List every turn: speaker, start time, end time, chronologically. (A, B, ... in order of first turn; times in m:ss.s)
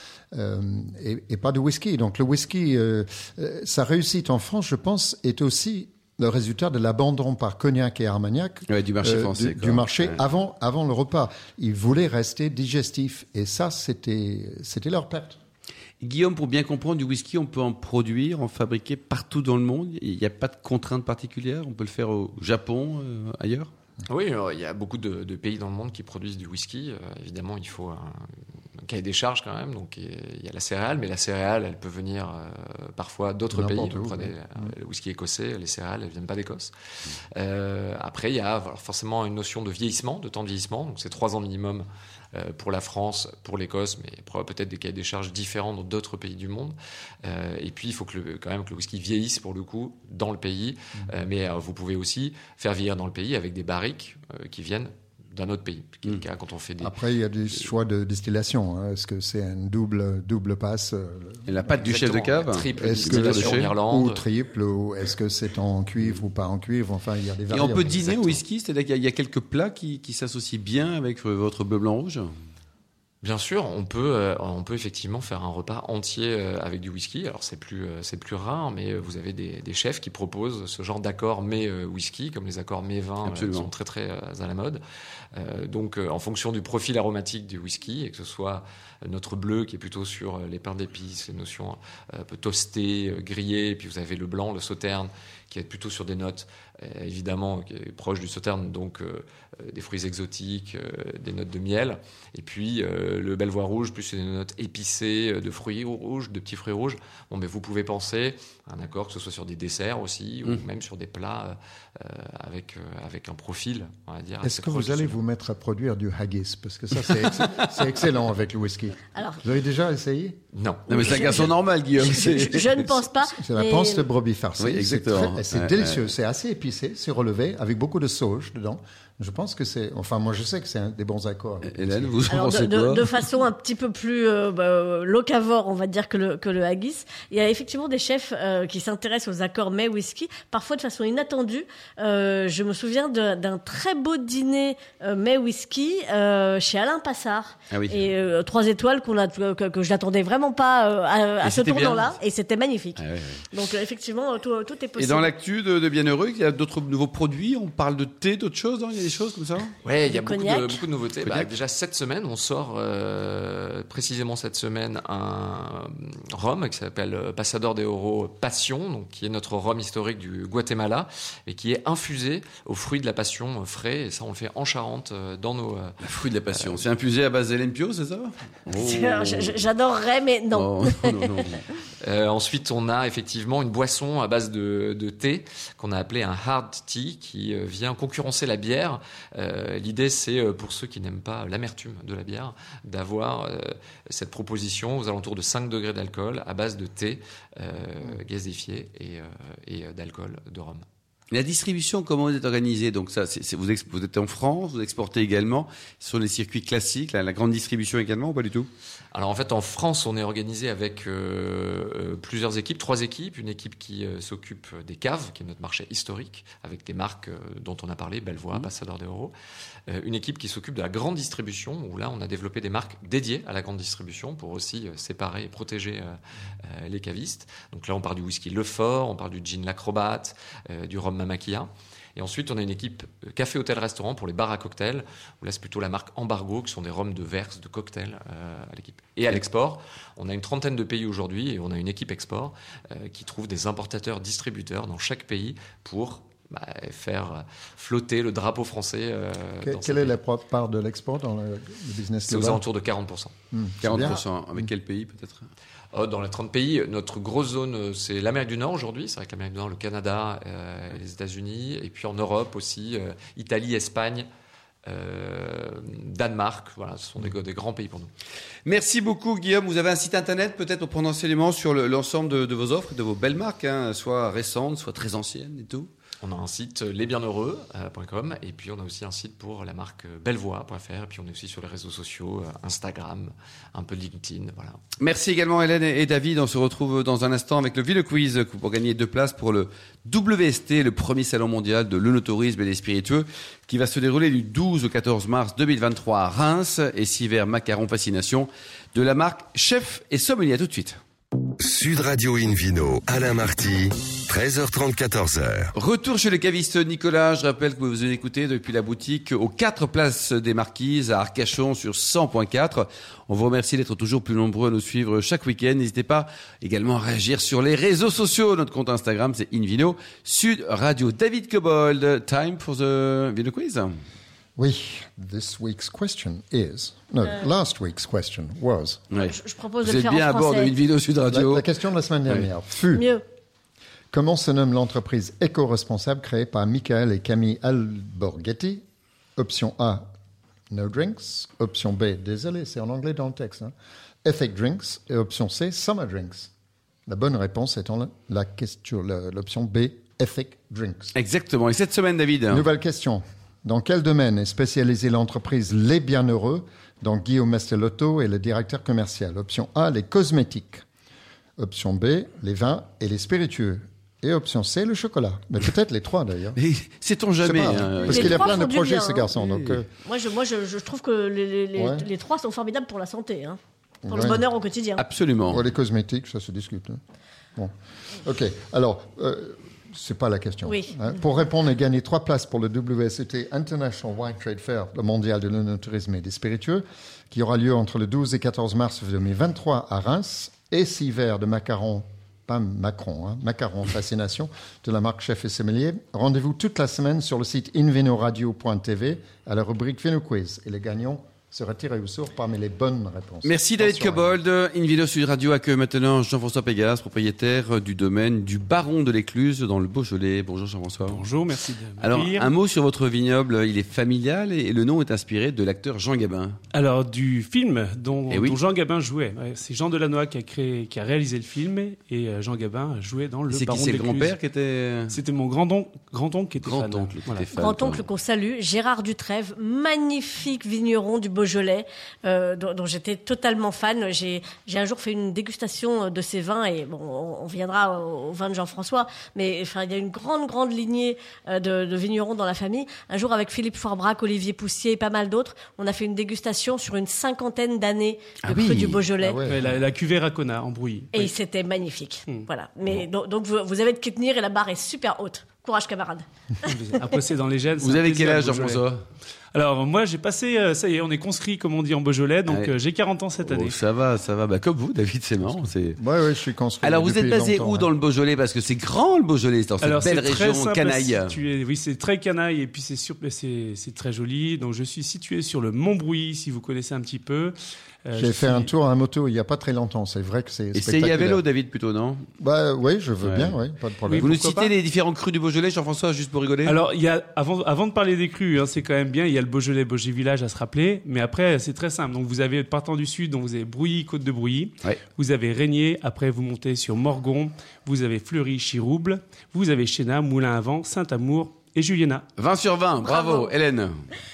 0:00.3-0:15.4 A
0:08.7-0:10.2 B
0:16.0-0:23.7 B
0:24.1-0:28.3 C
0:28.8-0:36.7 C
0:33.5-0:34.6 A
0:37.3-0:56.9 C
0:56.8-1:01.6 A
1:01.4-1:03.7 B
1:01.7-1:04.2 C
1:02.8-1:08.1 A
1:07.5-1:12.3 B
1:07.8-1:08.4 C
1:13.2-1:24.8 C
1:23.2-1:23.7 B
1:25.3-1:55.2 C
1:54.4-2:00.4 A
1:59.1-1:59.4 D
2:00.5-2:01.5 C
2:00.9-2:03.0 B
2:01.0-2:04.0 D
2:03.4-2:12.2 A
2:04.6-2:06.0 B
2:11.6-2:13.1 B
2:12.3-2:35.3 D
2:27.7-2:28.1 B
2:31.4-2:32.1 B
2:33.0-2:33.4 B
2:35.0-2:39.7 B
2:39.8-2:56.0 C
2:40.0-2:40.8 D
2:41.2-2:41.5 B
2:56.0-2:59.6 B
2:58.7-3:01.6 D
3:00.5-3:01.6 B
3:02.0-3:20.8 C
3:21.3-3:28.7 B
3:29.1-3:39.3 C
3:39.9-4:10.2 C
4:09.6-4:12.6 A
4:12.3-4:13.3 C
4:13.5-4:14.7 A
4:13.8-4:15.5 B
4:15.9-4:24.2 C
4:24.8-4:28.1 C
4:28.6-4:35.9 B
4:36.2-4:44.8 C
4:45.0-5:01.0 B
5:01.6-5:05.7 E
5:05.8-5:24.0 B
5:24.6-5:29.0 A
5:29.1-5:31.6 B
5:29.1-5:30.7 D
5:31.3-5:33.0 A
5:32.9-5:33.2 D
5:34.1-5:38.8 A
5:39.4-5:40.1 A
5:40.7-5:43.7 A
5:44.2-5:46.5 A
5:47.1-5:51.1 A
5:51.1-5:52.6 B
5:52.5-6:00.8 A
6:01.6-6:06.6 A
6:06.6-6:08.7 B
6:07.4-6:09.9 A
6:08.0-6:09.3 D
6:09.3-6:09.8 B
6:10.0-6:13.6 D
6:11.8-6:12.1 A
6:14.0-6:14.4 A
6:14.1-6:15.0 D
6:15.0-6:15.6 B
6:15.5-6:17.0 A
6:17.6-6:44.4 A
6:20.7-6:21.0 D
6:43.4-6:51.2 B
6:51.0-6:52.5 F
6:52.0-6:56.6 B
6:56.7-7:04.3 F
6:58.3-6:58.6 B
7:03.5-7:05.1 B
7:05.1-7:07.5 F
7:06.6-7:08.0 B
7:07.6-7:29.4 D
7:28.4-7:29.0 B
7:29.2-7:29.8 A
7:29.5-7:31.3 F
7:31.1-7:36.7 D
7:36.6-7:38.8 F
7:37.8-7:39.0 B
7:39.5-7:43.8 F
7:42.5-7:42.7 B
7:43.4-7:46.0 B
7:46.0-7:47.9 A
7:46.8-7:51.3 B
7:49.8-7:57.5 F
7:58.0-7:58.7 F
7:58.1-8:01.4 A
8:00.7-8:02.2 B
8:02.4-8:04.3 A
8:03.2-8:03.5 B
8:04.1-8:04.7 F
8:04.2-8:06.8 B
8:06.6-8:22.2 F
8:22.4-8:24.0 B
8:23.0-8:23.5 D